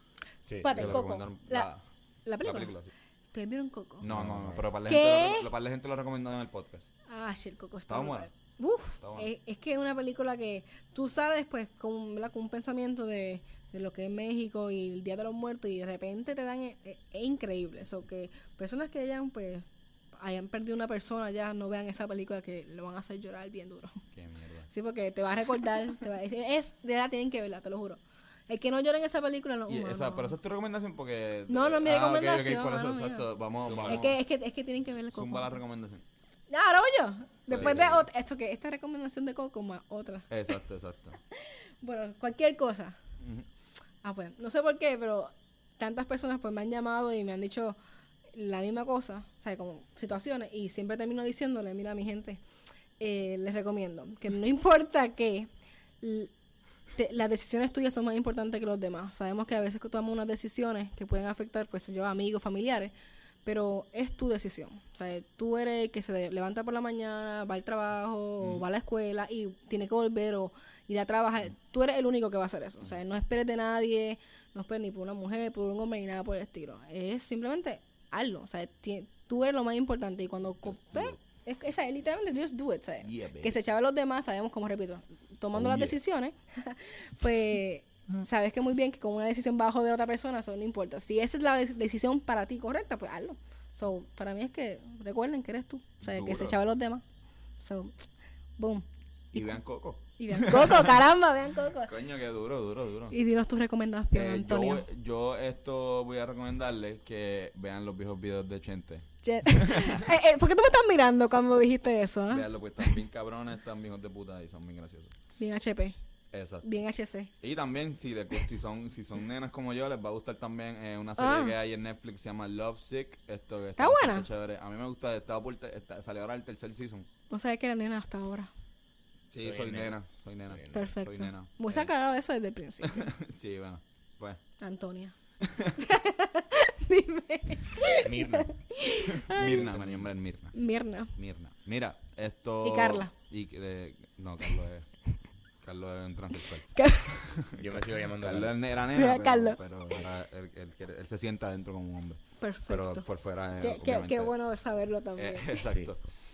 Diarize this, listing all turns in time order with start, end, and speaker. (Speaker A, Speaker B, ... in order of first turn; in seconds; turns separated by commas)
Speaker A: 0.5-1.0, Speaker B: 0.6-1.7, Speaker C: 0.7-1.8, Speaker B: 2.2-2.7, Speaker C: 2.4-2.9, Speaker B: 3.3-4.1, Speaker C: 4.0-6.9, Speaker A: 4.1-4.7, Speaker B: 4.9-5.5, Speaker B: 7.1-24.0, Speaker C: 7.9-8.3, Speaker C: 9.0-9.3, Speaker C: 24.1-24.7, Speaker B: 24.7-30.4, Speaker C: 29.7-34.2, Speaker B: 31.5-33.3, Speaker A: 33.6-34.1, Speaker B: 33.9-35.6, Speaker C: 35.1-36.0, Speaker B: 36.5-40.6, Speaker C: 37.5-38.0, Speaker A: 37.5-38.0, Speaker C: 40.3-41.2, Speaker B: 41.4-43.0, Speaker C: 43.2-43.5, Speaker B: 44.0-47.8, Speaker B: 48.3-52.4, Speaker B: 53.0-55.5, Speaker B: 56.0-56.3, Speaker B: 57.0-62.9, Speaker B: 63.4-97.0, Speaker C: 80.7-81.2, Speaker C: 83.0-83.6, Speaker C: 85.5-86.0, Speaker C: 96.0-96.6, Speaker B: 97.6-98.0, Speaker B: 98.6-99.6, Speaker C: 99.3-101.0, Speaker B: 100.2-101.9, Speaker C: 101.8-103.1, Speaker B: 103.1-104.8, Speaker C: 104.1-110.1, Speaker B: 109.2-112.5, Speaker C: 112.3-115.1, Speaker B: 115.4-116.0, Speaker C: 116.3-116.6, Speaker B: 116.6-117.3, Speaker C: 117.4-127.1, Speaker B: 121.2-121.5, Speaker B: 123.8-124.3, Speaker B: 127.3-128.5, Speaker C: 129.3-131.5, Speaker A: 129.4-130.0, Speaker A: 130.5-130.9, Speaker B: 130.7-133.1, Speaker C: 132.8-134.4, Speaker B: 134.6-135.1, Speaker C: 135.4-135.9, Speaker B: 135.7-139.7, Speaker A: 137.9-138.6, Speaker C: 139.1-140.5, Speaker A: 139.3-140.0, Speaker B: 140.5-141.1, Speaker C: 141.2-144.9, Speaker B: 142.6-143.1, Speaker C: 145.6-154.3, Speaker B: 146.7-147.2, Speaker A: 147.5-148.6, Speaker B: 148.9-149.6, Speaker B: 152.4-153.1, Speaker B: 153.6-155.6, Speaker C: 155.2-156.0, Speaker A: 155.6-155.9